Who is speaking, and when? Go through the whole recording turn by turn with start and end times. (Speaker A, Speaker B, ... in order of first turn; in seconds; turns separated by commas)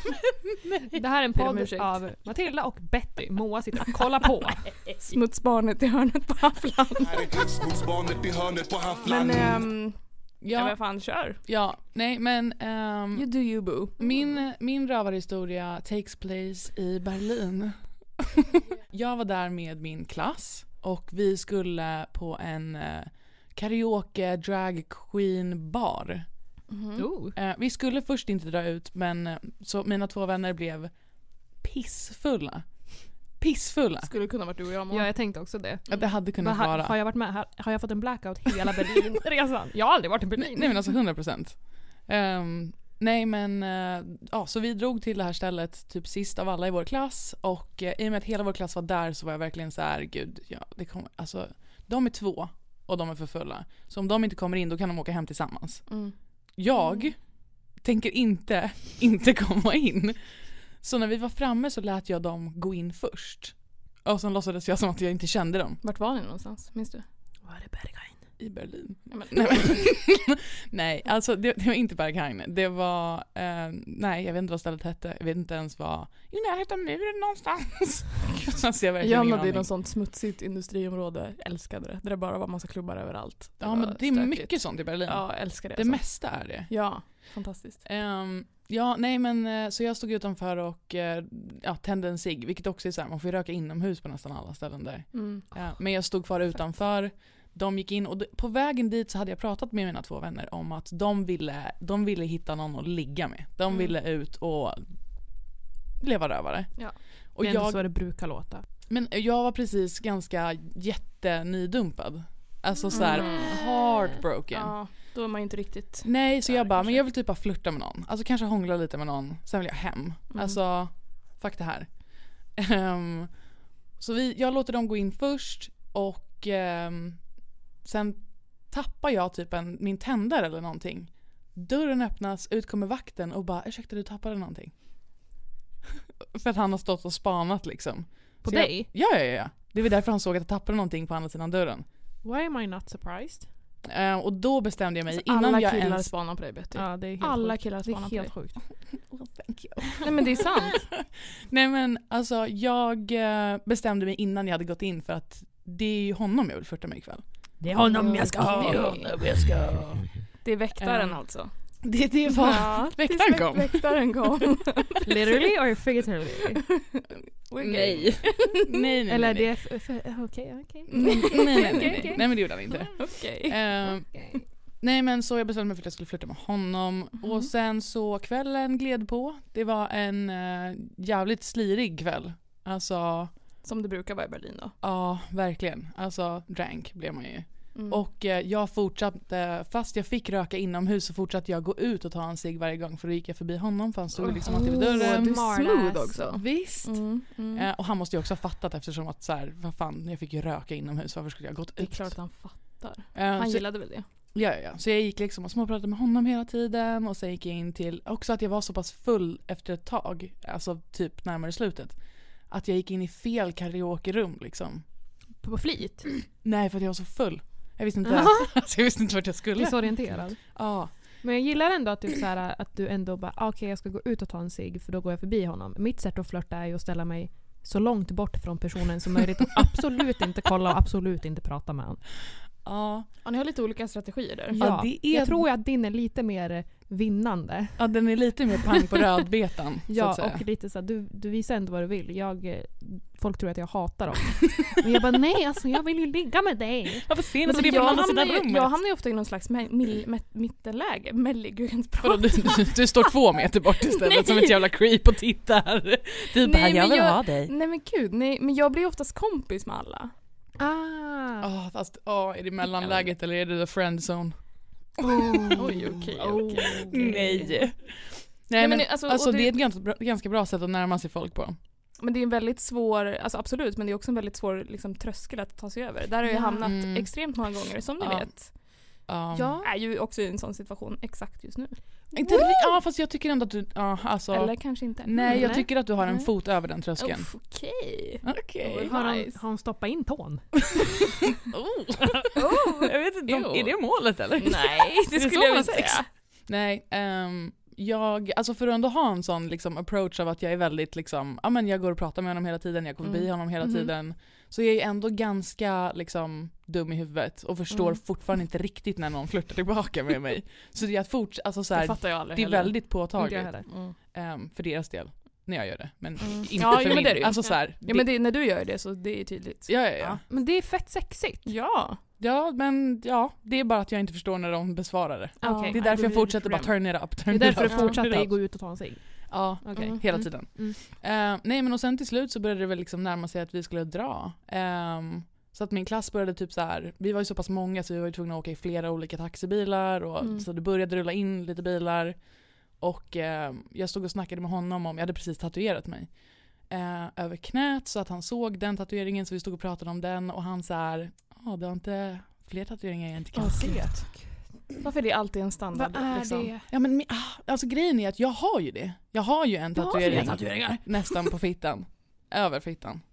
Speaker A: 0.9-5.2, Speaker B: 1.4-2.0, Speaker B: 5.1-7.3, Speaker C: 7.0-9.7, Speaker B: 9.1-11.4, Speaker D: 10.4-10.8, Speaker D: 11.4-13.3, Speaker B: 13.1-14.3, Speaker D: 14.0-26.3, Speaker B: 26.7-27.1, Speaker A: 27.0-27.4, Speaker D: 27.4-31.0, Speaker D: 31.5-34.1, Speaker B: 34.0-35.1, Speaker A: 34.9-40.9, Speaker D: 35.9-37.0, Speaker D: 40.4-56.0, Speaker B: 55.9-56.1, Speaker D: 56.5-65.8, Speaker B: 65.8-67.0, Speaker A: 67.4-68.2, Speaker D: 68.4-79.7, Speaker B: 69.1-70.0, Speaker B: 79.0-87.8, Speaker D: 83.6-87.3, Speaker D: 87.8-104.8, Speaker B: 95.1-95.5, Speaker D: 106.0-107.9, Speaker A: 107.4-108.7, Speaker D: 108.9-114.8, Speaker B: 112.9-113.6, Speaker B: 114.5-117.1, Speaker D: 116.0-123.4, Speaker B: 120.3-120.6, Speaker D: 124.0-127.3, Speaker D: 127.8-134.8, Speaker D: 136.2-141.8, Speaker A: 138.4-138.9, Speaker A: 142.2-143.5, Speaker D: 143.8-146.1, Speaker B: 145.1-148.3, Speaker A: 146.8-148.6, Speaker D: 148.9-160.1, Speaker B: 150.0-150.9, Speaker A: 157.6-160.0, Speaker B: 157.8-159.2, Speaker B: 160.4-161.8, Speaker D: 160.8-164.5, Speaker B: 162.3-165.4, Speaker A: 165.0-166.6, Speaker B: 166.6-168.8, Speaker D: 167.6-169.5, Speaker A: 169.1-172.2, Speaker B: 170.9-173.8, Speaker D: 170.9-183.3, Speaker A: 174.1-174.4, Speaker B: 183.6-184.8, Speaker D: 184.8-195.4, Speaker B: 187.7-188.0, Speaker A: 194.2-196.3, Speaker B: 194.3-197.7, Speaker D: 196.3-202.2, Speaker B: 201.8-204.1, Speaker D: 203.1-214.9, Speaker A: 215.4-216.1, Speaker D: 216.3-221.2, Speaker A: 218.0-218.7, Speaker A: 219.6-232.0, Speaker D: 232.6-233.1, Speaker B: 233.2-234.6, Speaker A: 234.5-237.9, Speaker D: 234.6-235.4, Speaker D: 237.8-240.4, Speaker A: 239.9-248.1, Speaker D: 247.1-248.8, Speaker B: 247.5-253.1, Speaker D: 252.0-257.5, Speaker B: 253.8-254.6, Speaker B: 256.4-260.1, Speaker A: 260.6-261.5, Speaker D: 261.4-264.4, Speaker B: 262.8-263.1, Speaker A: 265.0-267.5, Speaker D: 265.0-265.9, Speaker B: 265.6-267.5, Speaker D: 266.9-271.6, Speaker B: 268.6-269.6, Speaker B: 272.0-278.6, Speaker A: 276.2-276.7, Speaker D: 276.6-277.5, Speaker D: 278.0-279.6, Speaker A: 279.3-279.7, Speaker B: 279.6-282.6, Speaker D: 282.1-287.3, Speaker B: 284.3-289.4, Speaker A: 285.3-285.7, Speaker D: 288.2-288.9, Speaker A: 288.9-290.9, Speaker D: 291.5-318.1, Speaker B: 292.4-296.1, Speaker B: 303.0-303.9, Speaker B: 307.7-308.0, Speaker B: 311.7-312.9, Speaker A: 313.2-313.7, Speaker B: 313.7-314.0, Speaker B: 316.2-320.2, Speaker D: 319.7-320.2, Speaker A: 320.3-321.5, Speaker B: 321.4-322.0, Speaker D: 322.2-328.5, Speaker B: 325.4-326.7, Speaker A: 325.4-330.8, Speaker B: 327.7-328.0, Speaker D: 329.3-354.0, Speaker B: 340.2-340.5, Speaker B: 353.3-356.5, Speaker A: 353.6-354.3, Speaker A: 355.7-356.7, Speaker D: 356.7-363.0, Speaker B: 359.8-360.8, Speaker A: 360.0-360.8